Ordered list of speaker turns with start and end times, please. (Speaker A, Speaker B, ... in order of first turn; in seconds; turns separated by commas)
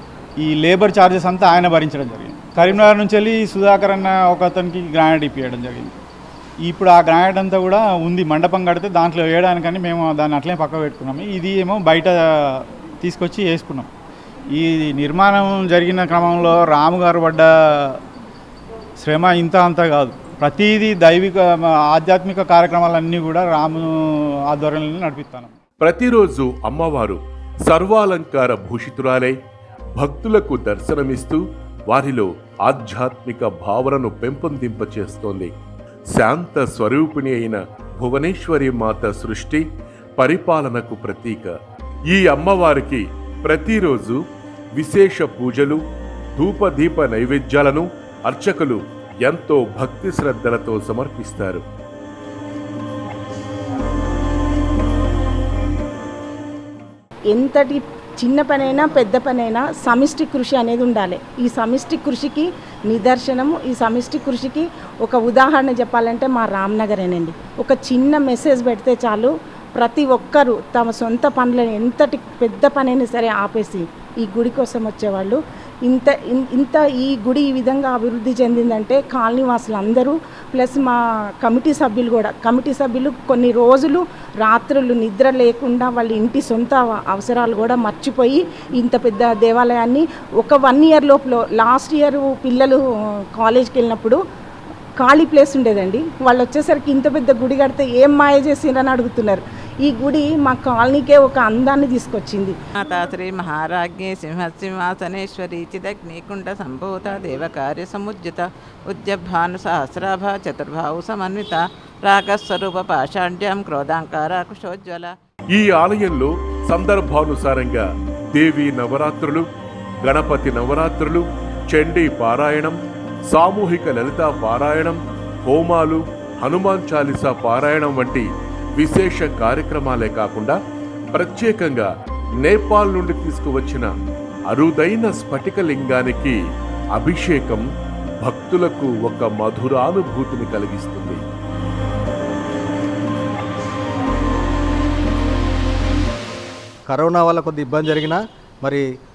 Speaker A: 0.4-5.9, Speaker A: 6.7-13.9, Speaker A: 14.6-18.0, Speaker A: 19.0-23.9, Speaker A: 24.5-25.6, Speaker B: 25.8-29.3, Speaker B: 30.0-35.5, Speaker B: 36.1-39.6, Speaker B: 40.2-41.5, Speaker B: 42.1-44.2, Speaker B: 44.8-45.8, Speaker B: 46.4-51.6, Speaker C: 57.3-92.8, Speaker C: 93.3-94.2, Speaker C: 95.0-102.6, Speaker D: 102.8-115.1, Speaker B: 115.5-119.5, Speaker B: 120.0-122.8, Speaker B: 123.3-128.3, Speaker B: 128.8-130.6, Speaker B: 131.1-131.9, Speaker B: 132.4-133.9, Speaker B: 134.5-136.4, Speaker B: 137.0-137.6, Speaker B: 138.2-141.2, Speaker E: 146.9-148.8